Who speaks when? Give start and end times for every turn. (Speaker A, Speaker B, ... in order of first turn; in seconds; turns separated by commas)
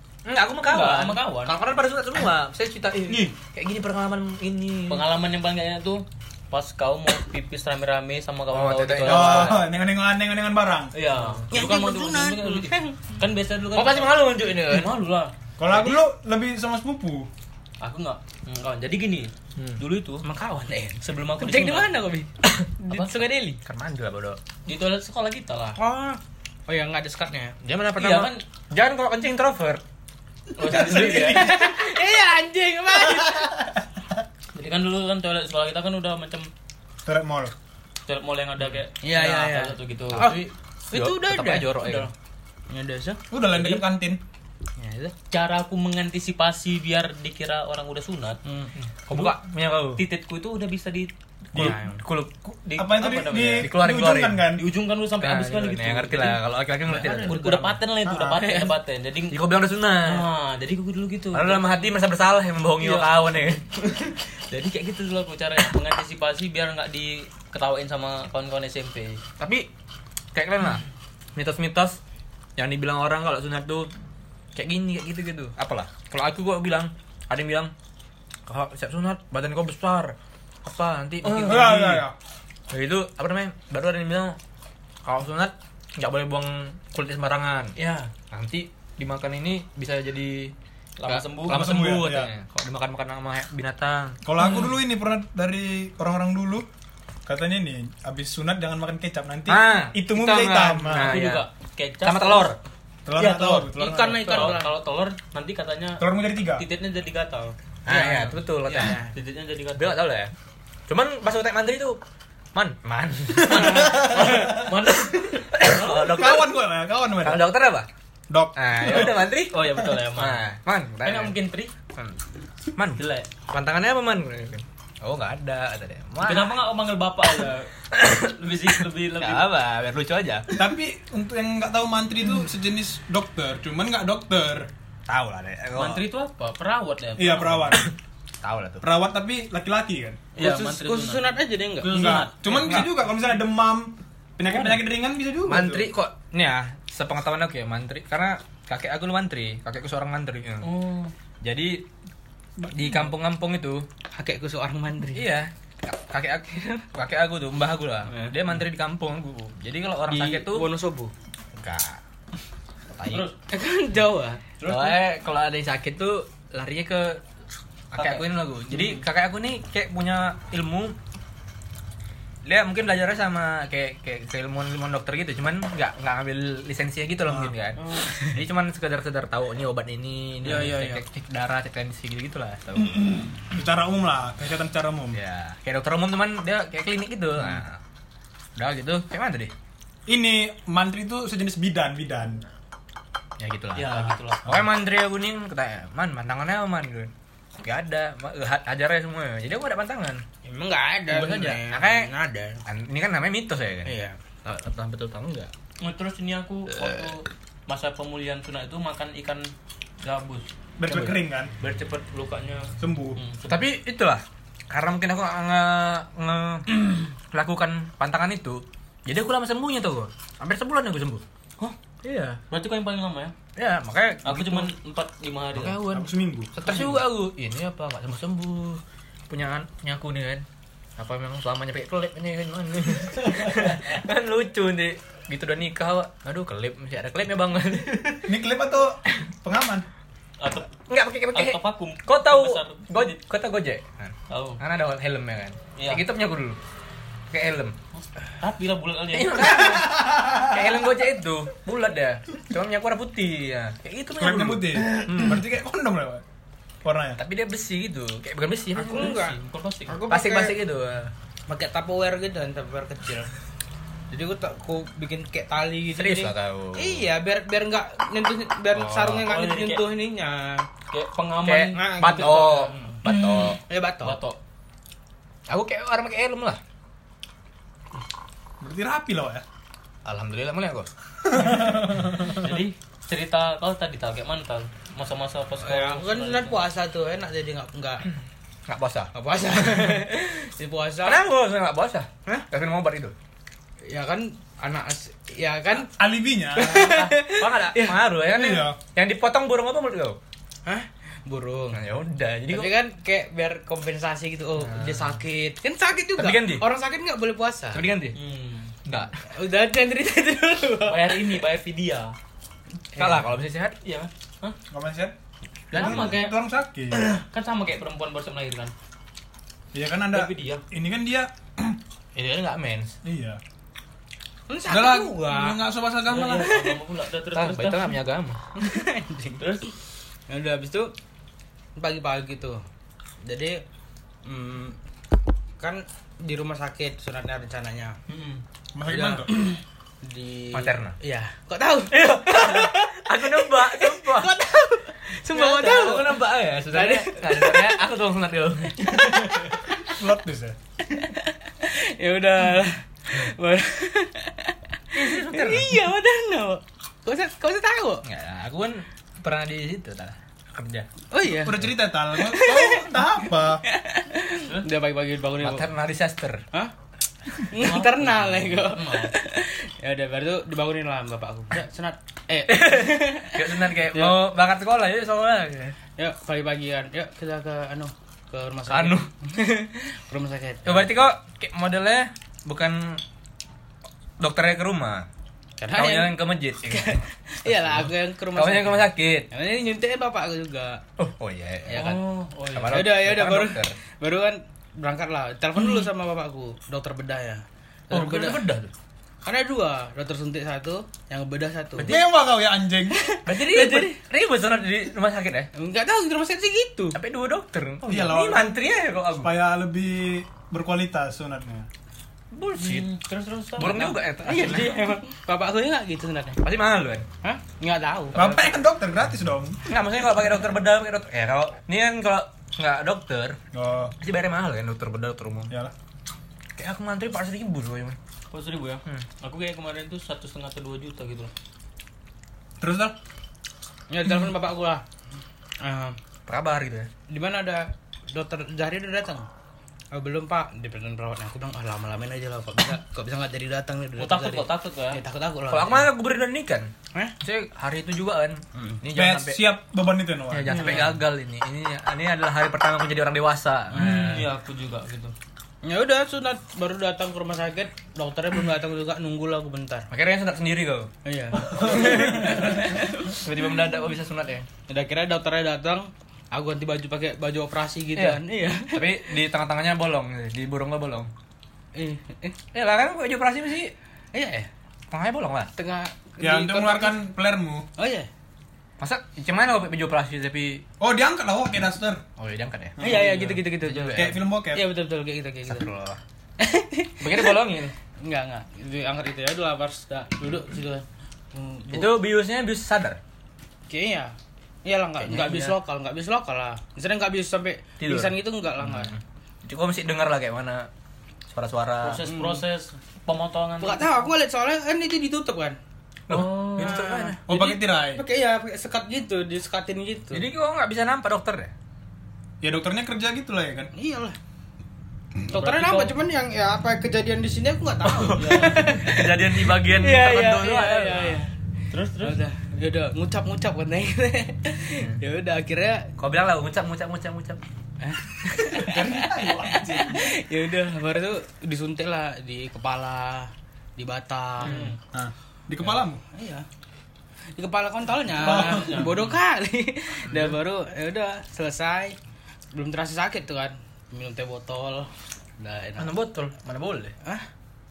Speaker A: 0.2-5.1, Speaker B: 0.6-1.6, Speaker B: 4.9-9.7, Speaker A: 8.5-9.6, Speaker C: 9.0-10.9, Speaker B: 10.9-16.0, Speaker D: 11.5-12.9, Speaker A: 13.8-14.9, Speaker C: 15.6-17.3, Speaker B: 17.8-20.3, Speaker A: 19.6-19.8, Speaker D: 20.2-23.6, Speaker B: 21.0-21.9, Speaker B: 22.9-23.2, Speaker A: 23.6-24.4, Speaker B: 24.6-25.8, Speaker D: 25.8-27.6, Speaker A: 27.6-29.8, Speaker B: 27.9-28.4, Speaker B: 30.6-31.6, Speaker C: 30.6-31.5, Speaker A: 30.7-31.4, Speaker D: 31.0-33.7, Speaker B: 34.5-36.5, Speaker C: 37.0-37.5, Speaker B: 38.0-40.4, Speaker D: 39.0-41.9, Speaker A: 40.1-42.1, Speaker B: 41.8-42.1, Speaker D: 42.7-43.2, Speaker C: 43.3-44.2, Speaker B: 43.5-43.8, Speaker D: 44.8-45.1, Speaker B: 45.3-49.4, Speaker A: 49.1-50.0, Speaker B: 50.0-51.8, Speaker C: 51.5-51.8, Speaker A: 51.5-52.6, Speaker B: 52.6-53.7, Speaker C: 52.8-54.6, Speaker A: 53.6-54.5, Speaker B: 54.5-59.4, Speaker A: 55.2-57.8, Speaker D: 57.0-57.4, Speaker C: 58.0-58.4, Speaker A: 59.3-60.2, Speaker B: 60.0-61.9, Speaker A: 61.3-63.7, Speaker B: 62.8-63.1, Speaker B: 63.9-69.2, Speaker A: 69.4-69.7, Speaker A: 70.3-70.8, Speaker A: 71.3-72.0, Speaker A: 72.6-73.9, Speaker A: 74.5-77.7, Speaker A: 78.5-82.0, Speaker B: 81.2-81.9, Speaker C: 81.4-82.1, Speaker A: 82.7-84.4, Speaker A: 85.0-87.8, Speaker B: 87.8-88.1, Speaker A: 88.3-90.5, Speaker B: 91.0-91.7, Speaker A: 91.0-94.2, Speaker C: 91.5-92.3, Speaker C: 94.2-96.7, Speaker B: 94.4-94.7, Speaker C: 97.3-101.1, Speaker A: 99.5-101.5, Speaker B: 100.9-102.5, Speaker A: 102.0-102.6, Speaker C: 103.1-104.5, Speaker B: 103.2-107.6, Speaker D: 103.5-104.7, Speaker C: 106.0-106.6, Speaker A: 107.9-109.0, Speaker D: 107.9-109.1, Speaker B: 108.7-110.0, Speaker A: 109.8-110.3, Speaker A: 110.9-112.0, Speaker A: 112.5-114.6, Speaker B: 113.4-116.3, Speaker C: 113.5-114.5, Speaker A: 115.5-116.5, Speaker C: 115.8-117.5, Speaker A: 117.2-117.9, Speaker C: 118.3-119.1, Speaker A: 118.5-121.4, Speaker B: 118.8-120.4, Speaker B: 121.0-121.7, Speaker A: 122.8-126.6, Speaker B: 123.0-123.3, Speaker B: 126.2-129.5, Speaker A: 127.9-128.3, Speaker A: 129.2-130.6, Speaker C: 130.6-134.7, Speaker A: 135.1-136.0, Speaker B: 135.8-137.9, Speaker C: 137.2-137.9, Speaker A: 138.4-138.8, Speaker C: 138.8-140.2, Speaker B: 140.4-142.9, Speaker D: 140.4-142.2, Speaker C: 141.8-145.9, Speaker A: 142.5-142.9, Speaker B: 144.5-144.8, Speaker A: 145.4-150.7, Speaker B: 150.6-151.1, Speaker A: 151.4-151.9, Speaker A: 152.7-153.9, Speaker D: 154.2-155.3, Speaker A: 155.1-160.7, Speaker B: 158.1-158.4, Speaker D: 160.1-161.1, Speaker A: 161.6-162.0, Speaker A: 162.9-163.3, Speaker B: 163.1-163.3, Speaker D: 163.5-164.4, Speaker B: 164.6-165.0, Speaker A: 164.6-167.2, Speaker A: 167.9-170.9, Speaker B: 167.9-169.1, Speaker A: 172.4-183.3, Speaker B: 180.4-181.0, Speaker C: 183.5-185.2, Speaker A: 185.1-187.8, Speaker A: 188.6-189.5, Speaker C: 190.1-192.4, Speaker A: 193.4-200.2, Speaker B: 193.7-194.4, Speaker D: 200.4-202.6, Speaker A: 201.1-202.1, Speaker A: 202.6-205.5, Speaker D: 203.9-204.2, Speaker B: 205.8-213.7, Speaker C: 210.8-211.5, Speaker C: 212.8-213.2, Speaker A: 213.5-221.2, Speaker B: 222.4-223.3, Speaker A: 223.6-224.7, Speaker B: 224.2-225.8, Speaker A: 225.5-230.4, Speaker C: 225.9-226.5, Speaker B: 226.7-226.9, Speaker A: 231.0-238.4, Speaker C: 238.3-239.9, Speaker B: 240.4-240.7, Speaker A: 240.8-246.6, Speaker B: 241.3-243.2, Speaker B: 244.3-244.6, Speaker B: 245.8-246.0, Speaker A: 247.3-247.8, Speaker B: 248.0-249.7, Speaker A: 249.1-255.4, Speaker C: 249.8-250.4, Speaker C: 254.2-256.2, Speaker C: 256.8-257.2, Speaker A: 257.2-259.1, Speaker D: 258.8-260.6, Speaker B: 258.8-260.0, Speaker A: 260.1-261.1, Speaker D: 261.5-263.3, Speaker D: 264.1-270.7, Speaker A: 265.9-267.1, Speaker A: 268.7-269.3, Speaker B: 269.2-269.9, Speaker B: 270.9-273.0, Speaker A: 271.4-273.6, Speaker D: 271.7-274.2, Speaker B: 274.0-274.4, Speaker A: 275.5-276.6, Speaker C: 278.6-279.4, Speaker A: 280.1-280.9, Speaker C: 281.3-282.3, Speaker B: 282.2-286.6, Speaker D: 285.6-288.1, Speaker A: 288.7-290.1, Speaker D: 289.1-291.2, Speaker A: 291.0-293.1, Speaker D: 293.9-295.9, Speaker C: 295.9-296.9, Speaker D: 296.5-298.1, Speaker A: 296.7-300.2, Speaker C: 298.3-298.8, Speaker D: 300.6-301.8, Speaker A: 301.7-302.7, Speaker D: 302.5-307.8, Speaker A: 304.6-305.2, Speaker A: 306.2-306.6, Speaker A: 307.7-308.2, Speaker B: 308.1-308.7, Speaker A: 308.9-309.1, Speaker D: 309.3-311.4, Speaker B: 310.9-312.1, Speaker A: 312.9-313.8, Speaker B: 313.8-314.6, Speaker C: 314.7-315.1, Speaker A: 315.7-316.2, Speaker B: 315.7-316.4, Speaker C: 315.7-317.1, Speaker B: 316.9-318.7, Speaker C: 319.7-321.8, Speaker B: 320.1-320.6, Speaker A: 322.1-322.9, Speaker C: 323.0-323.4, Speaker D: 324.5-325.6, Speaker C: 324.7-326.7, Speaker B: 326.1-327.9, Speaker A: 327.3-328.4, Speaker D: 328.6-329.4, Speaker B: 329.4-329.6, Speaker D: 330.3-330.9, Speaker D: 331.8-332.6, Speaker D: 333.2-333.6, Speaker D: 334.2-334.8, Speaker D: 335.6-338.0, Speaker C: 338.8-339.3, Speaker D: 338.9-347.9, Speaker A: 340.5-341.0, Speaker A: 341.9-344.4, Speaker A: 345.3-349.5, Speaker D: 348.8-349.6, Speaker C: 349.8-350.6, Speaker D: 350.9-358.0, Speaker A: 354.9-355.8, Speaker A: 358.0-360.9, Speaker D: 361.1-365.7, Speaker C: 361.2-363.6, Speaker A: 365.4-366.4, Speaker D: 367.4-374.2, Speaker B: 367.5-369.1, Speaker A: 372.5-375.8, Speaker D: 376.0-380.9, Speaker A: 378.7-379.1, Speaker A: 380.6-383.0, Speaker A: 384.2-385.1, Speaker D: 385.6-390.8, Speaker A: 385.7-389.3, Speaker A: 391.0-392.0, Speaker D: 391.7-392.0, Speaker B: 391.7-392.9, Speaker A: 392.5-393.8, Speaker D: 392.7-398.4, Speaker A: 397.9-398.7, Speaker D: 399.2-402.0, Speaker A: 401.8-402.1, Speaker C: 401.8-403.1, Speaker D: 402.9-404.0, Speaker A: 403.2-405.5, Speaker D: 405.6-407.0, Speaker A: 406.9-409.4, Speaker C: 407.8-408.6, Speaker C: 409.2-411.7, Speaker A: 412.3-412.9, Speaker B: 412.5-414.6, Speaker A: 413.6-414.8, Speaker D: 414.3-416.4, Speaker A: 416.4-417.1, Speaker D: 417.2-418.5, Speaker C: 418.1-419.6, Speaker A: 419.6-423.4, Speaker C: 423.5-423.9, Speaker A: 424.0-425.5, Speaker A: 426.6-428.0, Speaker B: 428.3-431.3, Speaker C: 432.6-432.9, Speaker D: 433.9-434.8, Speaker D: 435.6-435.9, Speaker A: 436.3-436.9, Speaker D: 437.1-439.3, Speaker D: 439.9-445.9, Speaker B: 444.0-445.0, Speaker A: 445.5-449.4, Speaker C: 448.9-450.8, Speaker A: 450.3-454.2, Speaker D: 450.5-450.9, Speaker B: 453.8-455.1, Speaker D: 453.8-454.1, Speaker D: 455.6-459.9, Speaker A: 459.9-460.9, Speaker D: 461.1-463.2, Speaker A: 461.6-464.5, Speaker D: 464.7-469.0, Speaker A: 467.9-471.1, Speaker D: 471.8-472.4, Speaker A: 472.5-473.7, Speaker D: 474.1-474.5, Speaker A: 474.9-475.5, Speaker D: 475.6-477.0, Speaker C: 476.2-477.6, Speaker D: 477.8-478.1, Speaker A: 478.8-480.6, Speaker C: 480.8-482.0, Speaker A: 482.2-482.9, Speaker C: 482.8-483.3, Speaker D: 482.8-485.7, Speaker B: 482.9-483.4, Speaker A: 483.6-484.2, Speaker C: 483.9-484.6, Speaker A: 485.5-486.0, Speaker D: 486.4-487.4, Speaker A: 487.0-487.8, Speaker D: 488.0-492.0, Speaker A: 491.7-493.0, Speaker D: 493.7-498.9, Speaker A: 495.0-495.5, Speaker A: 497.8-500.7, Speaker A: 501.3-502.1, Speaker B: 501.8-504.0, Speaker D: 502.1-502.4, Speaker D: 503.6-505.6, Speaker A: 506.1-507.2, Speaker B: 506.1-506.9, Speaker D: 506.6-510.3, Speaker C: 507.3-508.0, Speaker A: 510.1-511.5, Speaker C: 512.4-513.7, Speaker D: 513.8-514.1, Speaker D: 515.3-521.3, Speaker B: 515.3-515.9, Speaker A: 517.8-521.2, Speaker B: 518.1-518.7, Speaker B: 521.7-522.2, Speaker D: 522.0-525.9, Speaker A: 526.0-527.4, Speaker D: 527.8-534.7, Speaker C: 528.5-530.2, Speaker B: 534.4-534.8, Speaker C: 534.9-536.0, Speaker D: 536.1-536.5, Speaker D: 537.4-542.0, Speaker B: 538.1-539.2, Speaker C: 538.2-538.9, Speaker A: 540.1-540.4, Speaker D: 542.5-545.9, Speaker A: 545.8-546.9